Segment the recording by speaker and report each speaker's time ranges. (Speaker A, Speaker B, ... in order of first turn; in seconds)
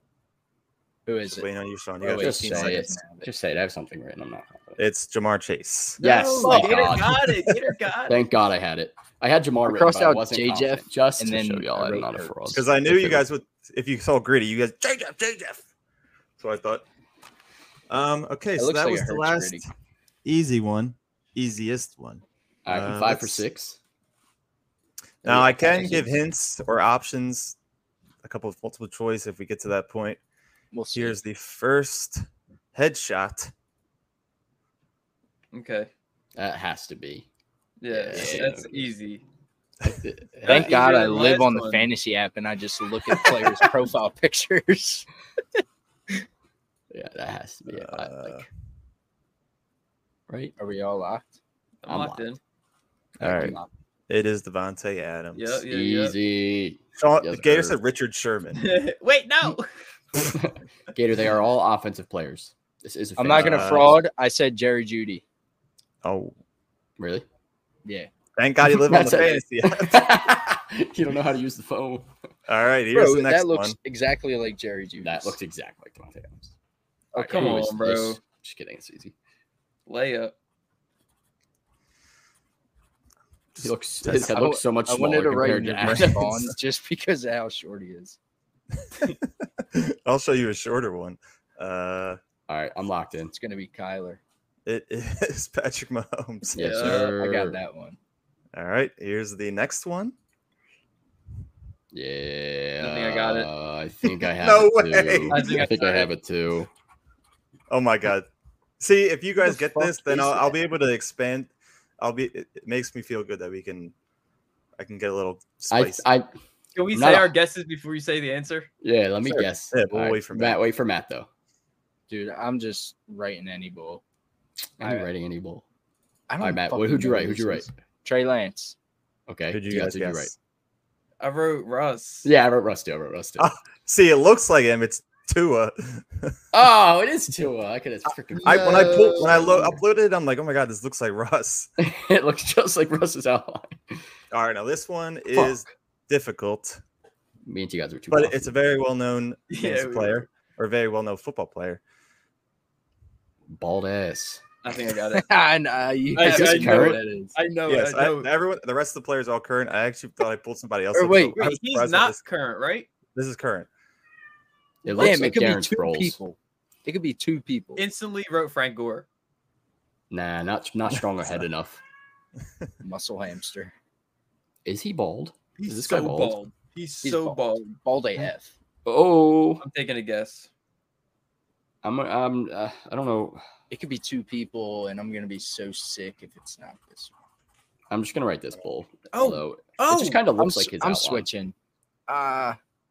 Speaker A: 1.1-1.5, 2.0-3.3, 9.7-12.7, 18.6-19.6, 30.7-31.2, 38.1-38.5, 40.5-45.1, 50.6-51.4, 53.2-53.7, 63.2-65.2, 67.8-68.1, 72.9-75.4, 77.2-77.6, 84.3-88.2, 93.3-94.2, 96.8-98.0, 109.4-110.6, 122.1-124.0, 124.8-125.1, 126.3-128.8, 155.2-157.3, 160.9-161.4, 165.0-167.8, 172.8-173.7, 177.0-178.5, 183.7-187.1, 190.4-191.5, 192.1-192.6
Speaker B: 1.2-2.9, 4.8-6.0, 12.5-15.6, 16.4-16.8, 17.9-19.6, 20.2-23.4, 25.2-27.6, 28.2-30.2, 30.9-33.5, 47.7-48.5, 53.2-55.6, 57.0-58.7, 63.3-64.0, 66.0-66.3, 68.4-70.0, 72.5-73.8, 83.5-84.5, 85.8-86.4, 88.9-89.2, 89.7-92.2, 94.7-96.7, 98.5-100.1, 104.2-106.0, 107.7-108.3, 108.8-113.9, 114.8-116.1, 119.3-120.6, 129.5-130.3, 133.4-136.4, 138.4-141.7, 144.3-146.8, 148.1-151.8, 157.7-162.2, 163.1-163.7
Speaker C: 2.2-4.8, 6.0-7.2, 8.1-13.2, 22.7-23.8, 25.2-26.2, 36.4-37.3, 37.9-38.9, 39.8-40.8, 46.9-48.5, 50.3-50.5, 51.9-52.3, 55.7-57.8, 60.1-64.0, 67.0-67.3, 68.6-72.1, 75.0-76.5, 77.1-79.2, 83.6-86.5, 92.5-93.3, 96.5-97.6, 101.9-106.7, 115.7-116.3, 116.9-117.3, 118.8-121.3, 124.8-125.6, 126.4-127.7, 129.3-130.3, 132.2-133.5, 136.5-139.8, 141.8-144.0, 145.3-145.7, 147.5-148.6, 153.5-154.4, 156.2-157.0, 164.8-166.2, 170.1-171.8, 174.7-176.4, 178.8-179.6, 181.8-183.4, 187.9-191.3
Speaker D: 6.0-8.2, 35.5-35.9, 37.8-39.2, 40.5-41.9, 51.8-52.4, 55.4-56.2, 58.5-59.7, 77.3-78.2, 79.9-80.3, 96.6-97.1, 102.8-103.5, 105.3-106.0, 116.8-118.7, 131.2-132.3, 138.3-139.3, 149.5-150.3, 154.6-155.3, 156.2-158.3, 161.4-162.9, 167.8-169.1, 175.6-177.8, 179.6-180.5, 189.1-190.2